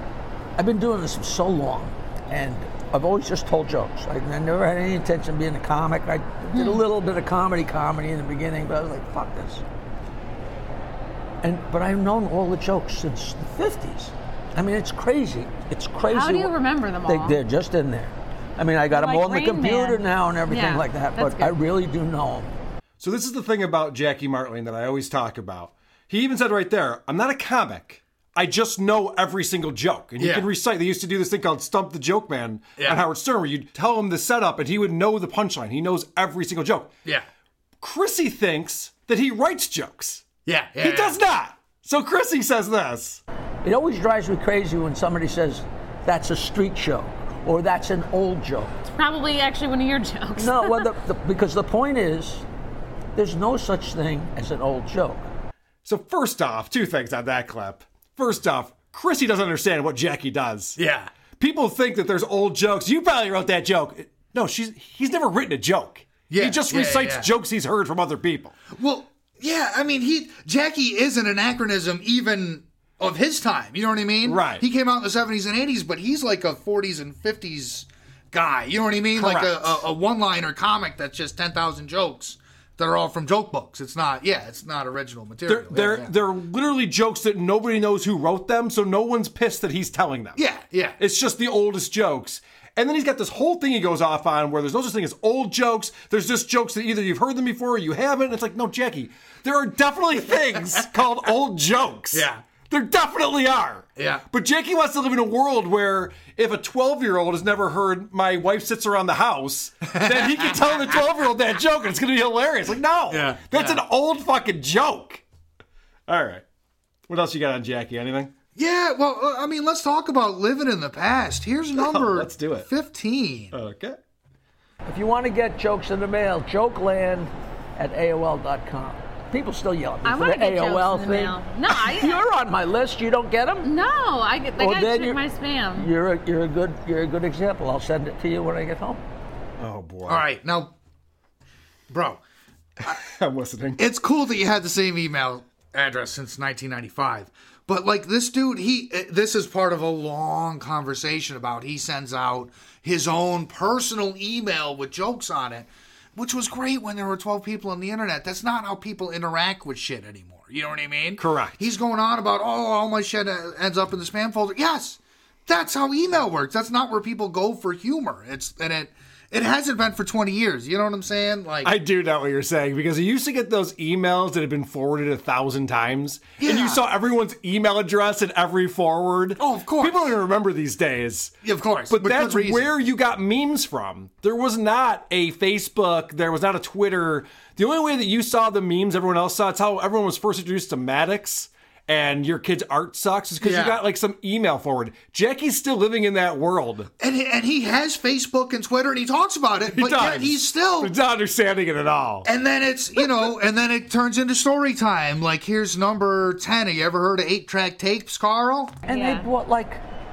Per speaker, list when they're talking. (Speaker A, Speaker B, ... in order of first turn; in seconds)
Speaker A: 0.6-9.6, 11.4-16.5, 17.1-22.5, 43.6-48.7, 50.4-52.4, 53.1-55.3, 124.9-133.7, 134.6-135.2, 135.8-139.0, 208.9-209.8
Speaker B: 6.5-6.8, 16.1-17.4, 18.9-21.5, 48.9-50.8, 130.0-132.2, 133.6-135.9, 208.9-209.3
Speaker C: 23.0-36.9, 37.8-40.2, 40.8-43.2, 55.9-60.8, 61.4-68.6, 74.2-74.6, 79.1-79.8, 85.5-90.4, 91.0-115.2, 116.1-116.4, 117.1-118.3, 121.8-122.7, 123.5-124.0, 139.6-140.2, 142.9-143.8, 161.2-161.6, 171.6-181.3, 181.9-196.9, 199.7-202.3
Speaker D: 30.2-30.5, 40.5-41.2, 60.8-61.1, 66.3-67.3, 68.7-86.1, 90.4-91.0, 102.1-102.4, 104.0-104.2, 109.9-110.8, 113.1-113.8, 118.5-123.5, 140.1-140.7, 141.9-142.2, 143.8-171.7, 176.4-176.8, 179.4-180.1, 181.4-182.7, 193.4-193.8, 197.0-200.9, 202.2-208.8